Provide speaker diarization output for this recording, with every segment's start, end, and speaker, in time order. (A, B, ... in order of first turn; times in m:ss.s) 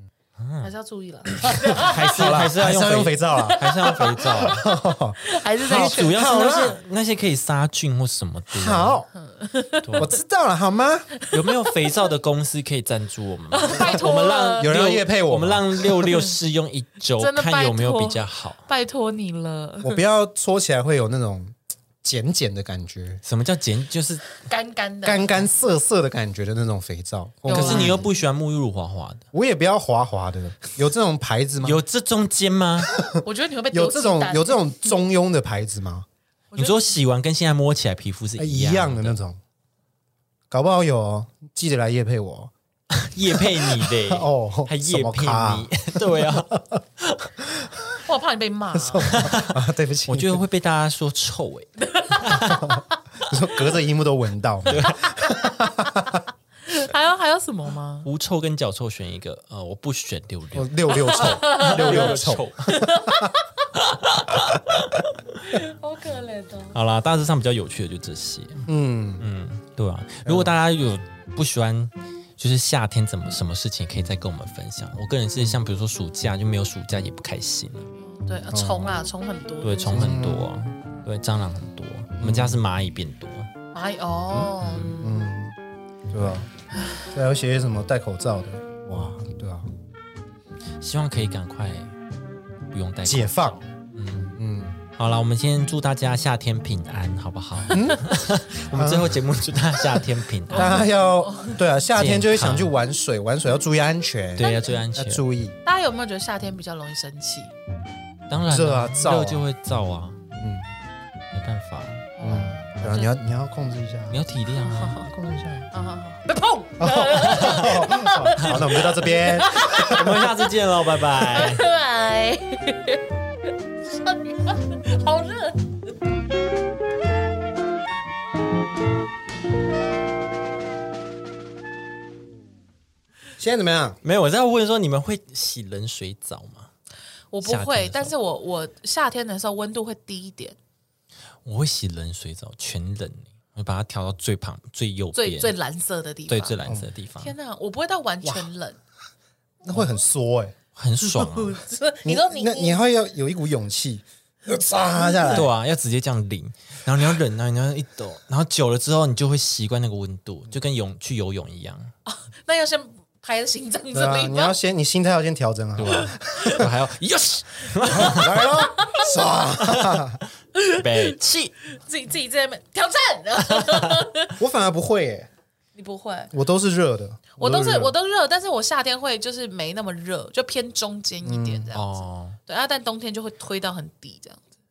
0:00.4-0:00.7 A
0:00.6-0:02.1 B
0:01.6-0:06.8 C
0:01.7-0:04.7 A
0:03.6-0:04.7 B
0:05.2-0:06.7 B
0:05.6-0:09.0 A
0:08.5-0:09.1 C
0:09.2-0:10.0 B
0:09.8-0:10.2 A
0:10.0-0:11.1 C
0:11.2-0:11.7 B
0:11.3-0:18.6 A
0:13.5-0:14.7 B
0:14.6-0:15.7 C
0:16.1-0:16.3 B
0:17.2-0:20.0 B
0:19.8-0:23.2 C
0:23.2-0:24.2 A
0:24.4-0:25.5 B
0:25.0-0:28.1 C
0:27.4-0:28.1 B
0:27.5-0:29.2 A
0:29.3-0:31.8 C
0:31.6-0:32.9 A
0:32.9-0:36.1 C
0:33.2-0:35.0 B
0:36.5-0:36.9 B
0:36.6-0:39.2 A
0:38.4-0:39.4 C
0:40.5-0:42.5 C
0:43.0-0:47.3 A
0:43.4-0:46.8 C
0:48.0-0:49.3 B
0:48.8-0:50.4 C
0:49.1-0:52.7 A
0:51.8-0:52.8 B
0:52.5-0:56.2 C
0:54.7-0:55.1 A
0:54.8-0:56.0 B
0:56.6-0:58.1 B
0:58.0-1:03.0 A
1:00.6-1:03.3 C
1:00.9-1:03.6 B
1:03.8-1:05.0 A
1:05.5-1:06.8 B
1:06.7-1:08.7 A
1:08.7-1:09.3 C
1:09.2-1:17.9 A
1:10.3-1:10.5 C
1:18.0-1:20.2 B
1:18.5-1:18.9 C
1:19.6-1:23.5 A
1:19.9-1:20.5 C
1:22.2-1:22.6 C
1:23.7-1:25.3 B
1:24.3-1:25.6 C
1:24.6-1:24.9 A
1:26.1-1:26.5 C
1:27.1-1:29.7 C
1:30.8-1:31.9 A
1:32.7-1:34.4 A
1:33.0-1:33.6 C
1:34.2-1:34.8 C
1:35.0-1:40.8 A
1:37.7-1:38.1 C
1:38.7-1:39.1 C
1:40.5-1:45.6 C
1:40.6-1:41.6 B
1:42.0-1:42.7 A
1:44.4-1:45.2 A
1:44.4-1:44.8 B
1:45.6-1:47.5 B
1:48.3-1:50.2 A
1:48.5-1:49.4 C
1:50.3-1:50.7 C
1:51.3-1:52.1 A
1:52.2-1:53.1 B
1:52.2-1:54.2 C
1:54.1-1:55.0 A
1:54.6-1:55.1 B
1:55.0-1:55.7 C
1:55.7-2:00.5 B
1:56.8-2:00.2 C
1:57.2-1:57.8 A
1:59.6-2:01.7 A
2:01.2-2:03.0 B
2:03.9-2:05.9 B
2:13.4-2:14.0 C
2:14.0-2:16.7 A
2:17.3-2:20.6 B
2:17.4-2:18.1 A
2:21.4-2:25.6 A
2:25.2-2:26.6 B
2:26.3-2:27.4 A
2:27.2-2:28.8 B
2:28.2-2:28.5 C
2:29.6-2:30.6 C
2:30.8-2:31.6 A
2:31.0-2:32.8 B
2:32.0-2:35.5 C
2:35.0-2:35.4 B
2:35.3-2:41.9 A
2:42.1-2:44.6 B
2:43.9-2:46.7 C
2:45.8-2:48.5 A
2:46.4-2:46.6 B
2:47.8-2:50.2 C
2:48.1-2:49.1 B
2:49.6-2:50.1 A
2:50.6-2:51.2 B
2:50.7-2:51.6 A
2:51.7-2:54.4 B
2:53.5-2:54.1 A
2:54.4-2:55.3 C
2:55.8-2:56.3 B
2:56.3-2:57.9 C
2:57.4-3:04.5 B
3:01.2-3:01.7 C
3:01.7-3:02.4 A